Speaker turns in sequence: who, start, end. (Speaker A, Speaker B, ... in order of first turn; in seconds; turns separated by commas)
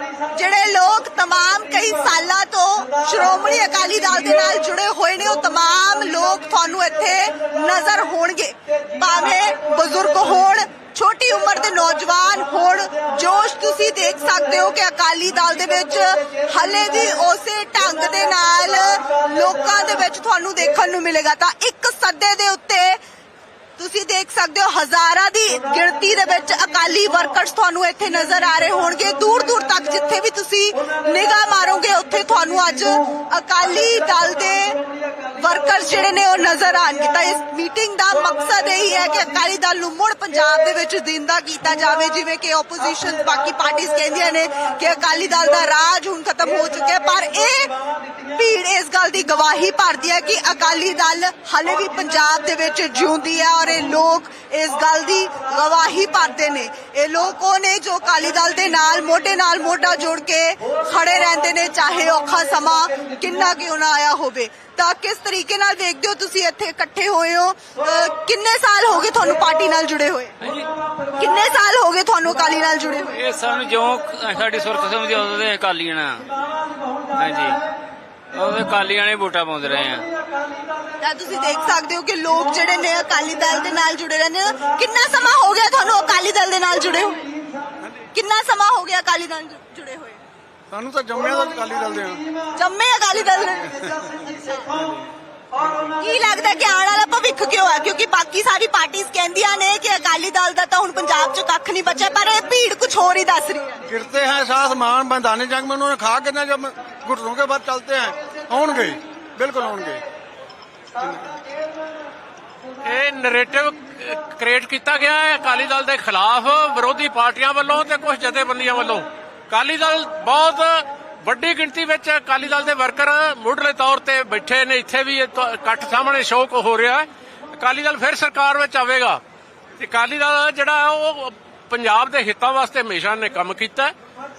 Speaker A: 0.3-23.0, Speaker A: 23.8-34.8, Speaker A: 35.4-47.7, Speaker A: 48.3-70.3, Speaker A: 71.2-73.1, Speaker B: 73.1-76.5, Speaker B: 77.1-77.6, Speaker B: 78.3-80.1, Speaker A: 81.0-87.2, Speaker A: 88.1-90.2, Speaker C: 90.7-92.2, Speaker A: 92.5-94.7, Speaker A: 95.9-103.8, Speaker C: 103.9-110.0, Speaker D: 112.8-129.2, Speaker D: 129.8-133.9